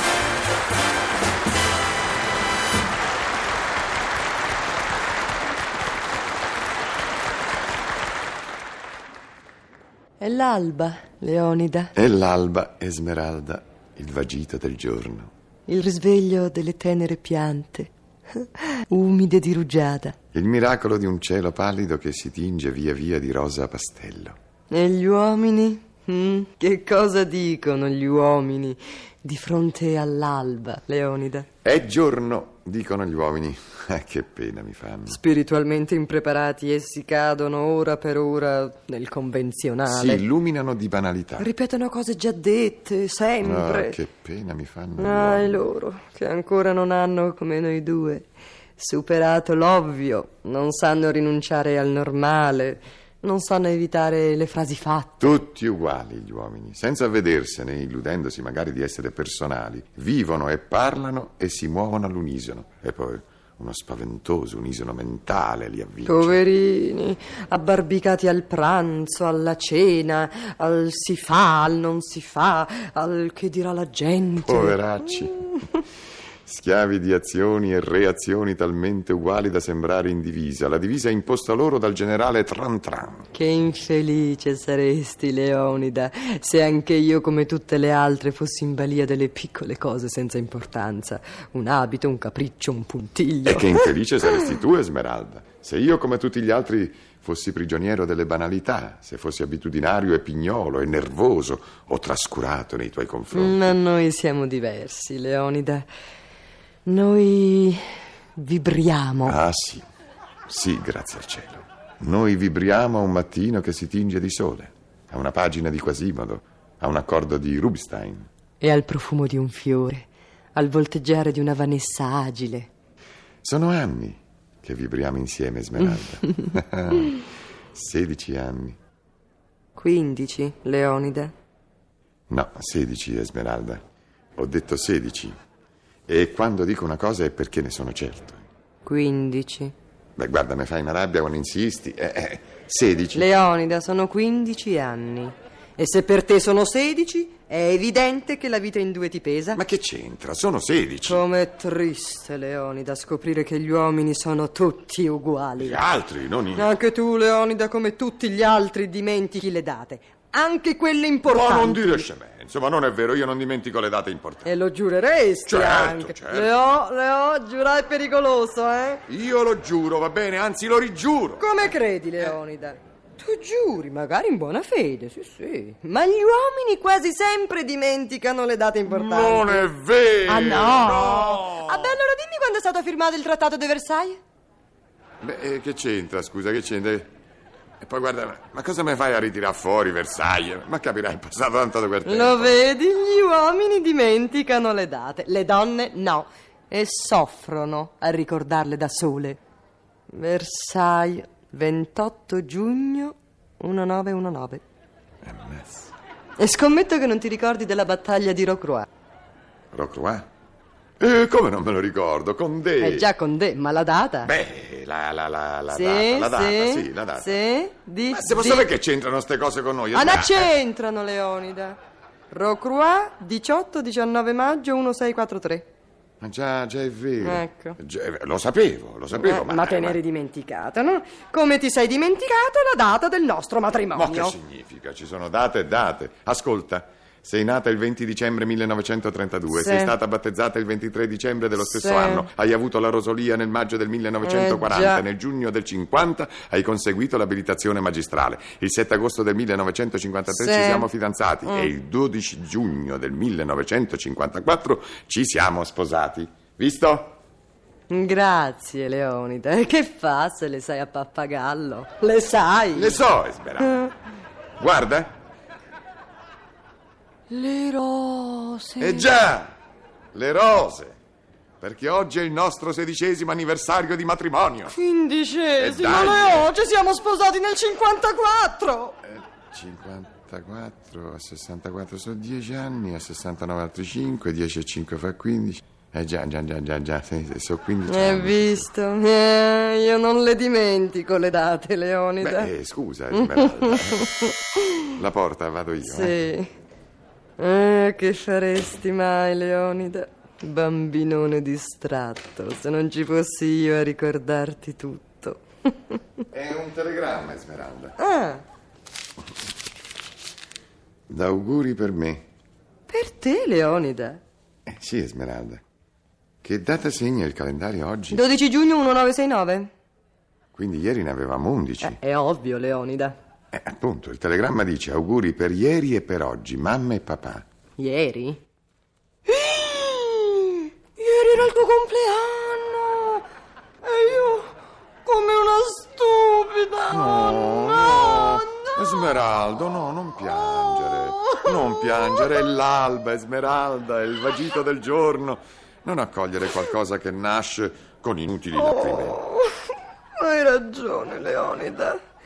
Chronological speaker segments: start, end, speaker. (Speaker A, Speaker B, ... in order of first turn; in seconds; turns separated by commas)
Speaker A: 10.2-11.9, Speaker B: 12.0-15.3, Speaker A: 15.7-20.2, Speaker B: 20.3-24.4, Speaker A: 24.7-31.5, Speaker B: 31.6-35.2, Speaker A: 35.1-40.2, Speaker B: 39.9-41.5, Speaker A: 41.4-44.0, Speaker B: 43.4-45.6, Speaker A: 45.0-55.4, Speaker B: 55.2-66.4, Speaker A: 66.0-75.8, Speaker B: 74.4-75.6, Speaker B: 76.5-83.3, Speaker A: 83.3-94.5, Speaker B: 93.5-103.8, Speaker A: 103.3-105.9, Speaker A: 106.8-109.4, Speaker B: 109.2-109.8, Speaker B: 110.5-118.3, Speaker A: 118.6-122.7, Speaker B: 123.4-128.8, Speaker A: 125.9-126.5, Speaker A: 129.8-131.3, Speaker B: 132.3-133.8, Speaker B: 134.4-135.4, Speaker B: 136.1-138.4, Speaker A: 138.8-139.7, Speaker B: 140.2-143.3, Speaker A: 143.1-149.6, Speaker B: 149.5-151.2, Speaker A: 151.1-155.8, Speaker B: 155.6-156.7, Speaker A: 156.5-162.1, Speaker B: 161.3-164.5, Speaker A: 164.4-169.0, Speaker B: 165.5-166.5, Speaker B: 169.1-171.7, Speaker A: 171.4-179.7, Speaker B: 178.8-182.0, Speaker A: 180.2-184.2, Speaker B: 185.2-187.1, Speaker B: 187.8-192.6, Speaker A: 192.0-199.4, Speaker A: 200.1-204.6, Speaker B: 205.2-205.9, Speaker A: 206.4-208.9, Speaker B: 209.7-210.3, Speaker B: 211.0-213.1, Speaker A: 212.8-214.3, Speaker B: 214.2-217.4, Speaker A: 215.7-218.7, Speaker B: 218.1-220.6, Speaker A: 219.9-221.8, Speaker A: 222.3-225.7, Speaker B: 226.2-230.0, Speaker A: 227.2-227.8, Speaker A: 229.1-234.4, Speaker B: 233.9-257.2, Speaker A: 239.5-239.9, Speaker A: 241.6-242.3, Speaker A: 244.2-245.1, Speaker A: 250.3-250.9, Speaker A: 251.4-251.7, Speaker A: 257.9-263.1, Speaker B: 262.7-263.9, Speaker B: 264.6-265.1, Speaker A: 267.3-269.2, Speaker B: 268.8-269.5, Speaker B: 270.1-271.0, Speaker B: 271.6-274.8, Speaker A: 274.7-279.0, Speaker B: 275.6-276.5, Speaker B: 279.0-288.7, Speaker A: 287.9-292.5, Speaker B: 292.2-294.1, Speaker A: 293.1-295.0, Speaker B: 295.0-296.2, Speaker A: 295.8-296.5, Speaker A: 297.4-306.2, Speaker B: 306.3-308.0, Speaker A: 308.0-308.4, Speaker B: 311.1-312.2, Speaker A: 312.9-314.2, Speaker B: 314.7-315.6, Speaker B: 316.4-318.2, Speaker A: 318.1-319.7, Speaker B: 320.6-322.0, Speaker A: 321.8-323.2, Speaker B: 323.5-327.4, Speaker A: 327.8-328.4, Speaker A: 329.3-333.2, Speaker A: 333.8-339.1, Speaker B: 336.9-349.2, Speaker A: 340.3-342.4, Speaker A: 348.6-349.6, Speaker A: 350.2-352.0